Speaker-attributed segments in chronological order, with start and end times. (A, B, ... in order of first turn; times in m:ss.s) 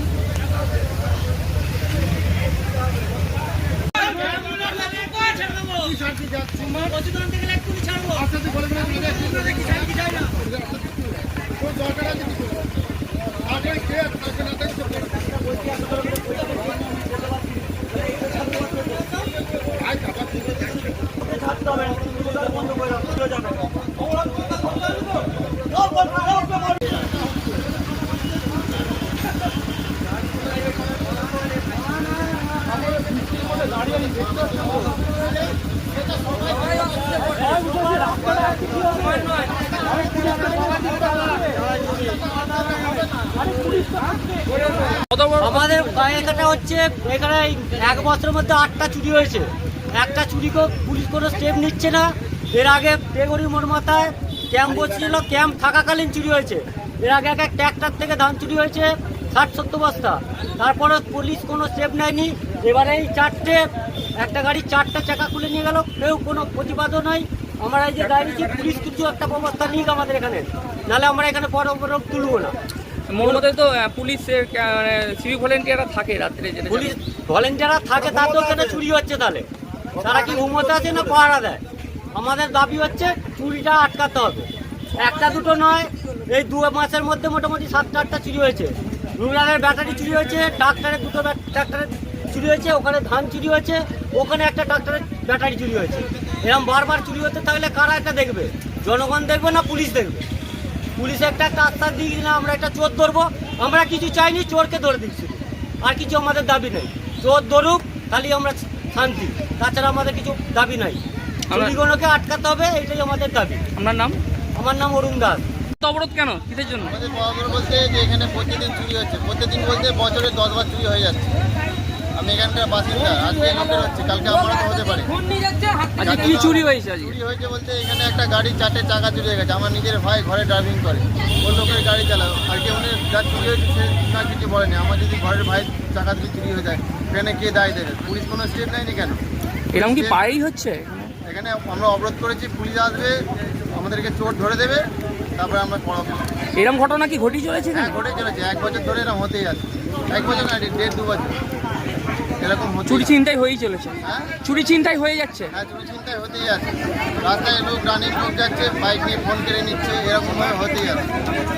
0:04.0-0:10.4 A
0:21.6-0:23.2 A
0:37.6-0:38.3 A
0:45.1-0:45.8 B
0:45.4-1:12.6 A
1:13.1-1:16.9 B
1:16.7-1:21.6 A
1:22.1-1:40.2 A
1:41.0-1:53.6 A
1:51.5-1:51.8 B
1:53.8-1:54.2 B
1:54.6-1:55.4 A
1:55.8-1:56.9 B
1:56.9-2:01.4 C
2:02.2-2:05.1 C
2:04.9-2:07.2 B
2:06.0-2:19.2 C
2:19.7-2:21.1 B
2:19.7-2:20.2 C
2:21.2-2:26.3 C
2:26.6-2:28.0 B
2:27.7-2:31.3 C
2:32.4-2:33.1 C
2:32.9-2:35.5 B
2:34.0-2:34.3 C
2:35.5-2:41.1 C